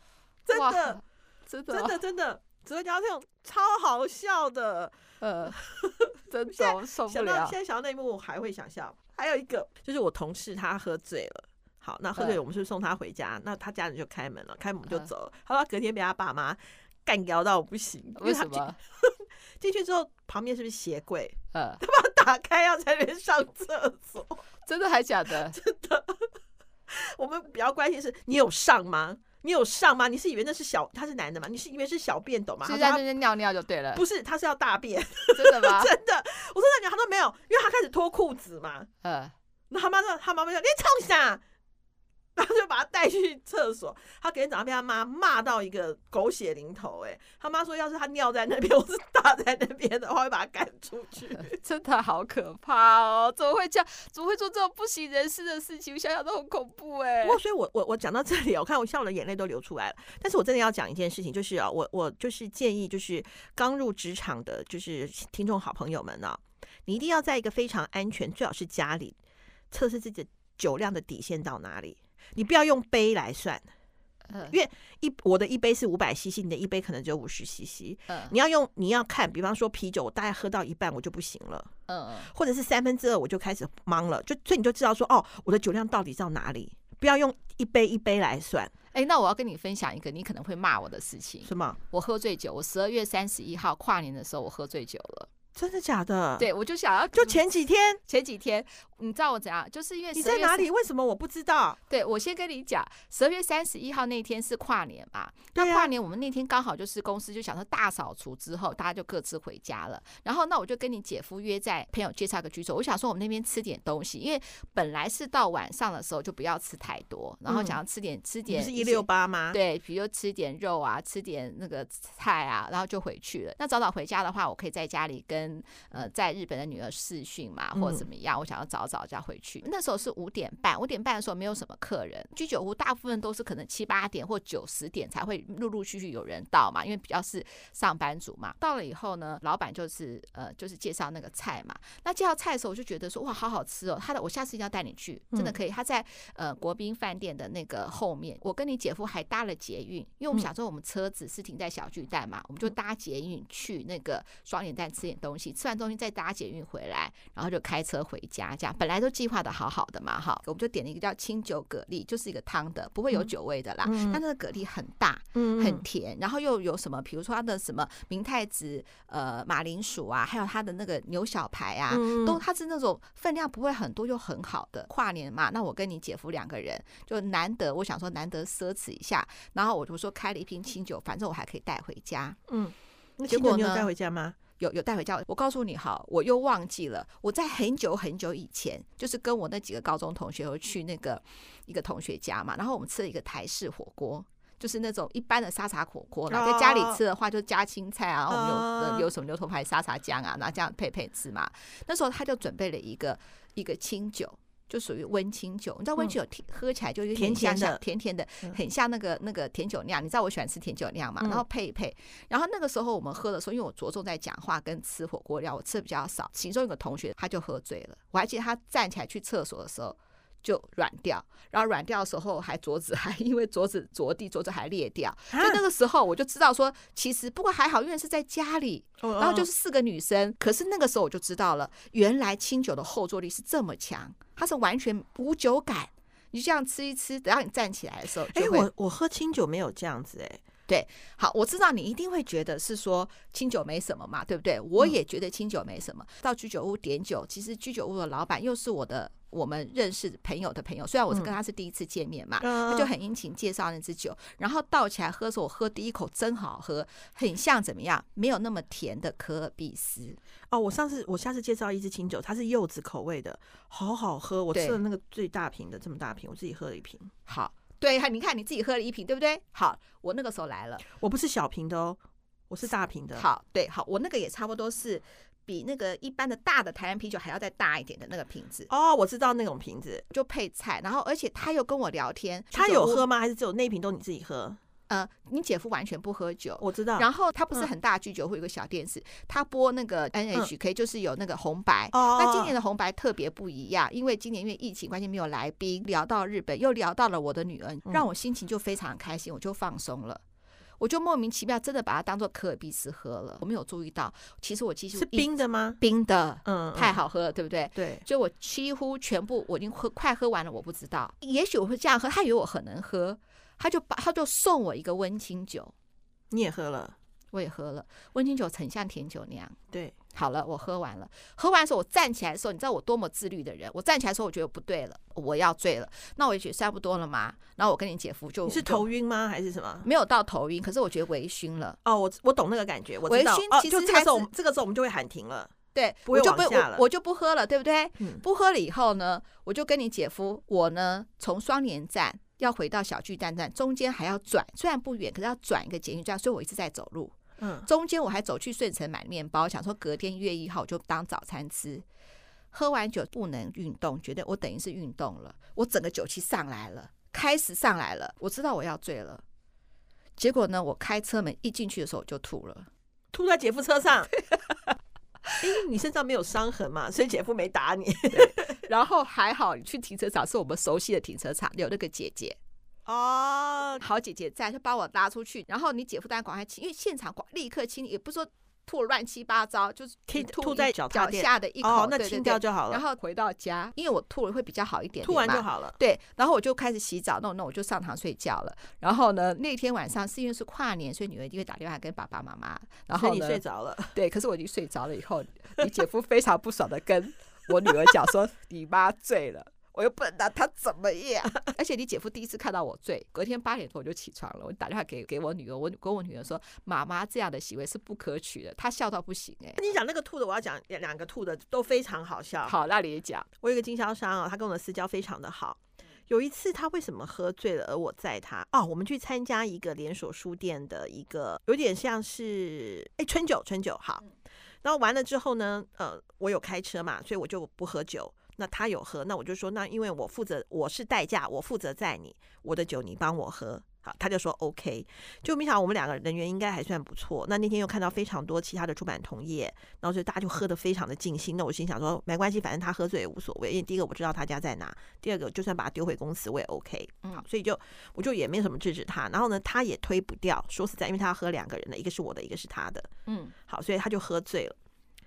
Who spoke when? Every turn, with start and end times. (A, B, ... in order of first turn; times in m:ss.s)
0:00.4-0:01.0 A
0:00.5-0:02.0 B
0:01.7-0:05.0 A
0:05.2-0:05.6 B
0:05.5-0:24.4 A
0:06.3-0:07.6 B
0:18.2-0:18.8 B
0:21.5-0:21.8 B
0:24.6-0:25.6 B
0:25.3-0:26.3 A
0:26.9-0:33.0 A
0:32.6-0:34.0 B
0:33.9-0:38.9 A
0:35.3-0:35.9 B
0:39.0-0:39.3 B
0:39.7-0:41.4 A
0:42.4-0:51.6 A
0:51.3-0:57.4 B
0:57.2-1:09.2 A
1:09.7-1:13.6 A
1:14.3-1:14.6 B
1:14.5-1:21.7 A
1:18.1-1:18.3 B
1:21.9-1:22.3 B
1:22.3-1:28.7 A
1:28.9-1:35.3 B
1:31.4-1:31.8 A
1:35.6-1:36.5 A
1:36.4-1:37.4 B
1:37.1-1:38.0 A
1:38.1-1:40.7 B
1:40.1-1:41.8 A
1:41.9-3:02.4 B
1:45.5-1:45.9 A
1:57.5-1:57.8 A
1:58.5-1:59.6 A
2:07.7-2:08.0 A
2:25.3-2:25.6 A
2:43.8-2:44.2 A
2:45.3-2:45.8 A
2:51.9-2:52.4 A
3:02.5-3:04.4 A
3:03.3-3:03.9 B
3:04.6-3:58.7 B
3:16.3-3:17.0 A
3:18.3-3:19.1 A
3:27.2-3:27.8 A
3:45.3-3:45.6 A
3:49.0-3:49.5 A
3:58.3-4:00.4 A
4:00.7-4:20.2 B
4:12.4-4:12.9 A
4:20.5-4:27.1 A
4:24.5-4:24.8 B
4:27.3-4:30.8 B
4:30.9-4:33.2 A
4:33.2-4:38.7 B
4:38.7-4:40.0 A
4:40.1-4:43.0 B
4:42.5-4:44.6 A
4:44.9-5:00.2 B
4:46.6-4:47.7 A
4:51.9-4:52.5 A
5:00.8-5:15.7 B
5:04.9-5:05.8 A
5:06.4-5:07.0 A
5:07.8-5:08.0 A
5:16.3-5:16.9 A
5:17.3-5:19.6 B
5:20.1-5:28.8 B
5:28.4-5:29.9 A
5:29.8-5:31.8 B
5:31.8-5:35.5 A
5:33.1-5:34.3 B
5:35.7-5:51.8 B
5:36.1-5:36.8 A
5:47.4-5:47.7 A
5:52.5-5:59.2 B
6:00.2-6:02.7 B
6:03.1-6:04.1 A
6:05.4-6:08.6 A
6:08.1-6:12.4 B
6:12.8-6:13.8 A
6:13.8-6:49.6 B
6:20.1-6:22.8 A
6:25.0-6:25.8 A
6:32.9-6:33.9 A
6:49.6-6:52.6 A
6:52.4-6:53.3 B
6:53.4-7:04.0 A
7:04.6-7:32.9 A
7:33.0-7:33.3 B
7:33.5-7:34.6 A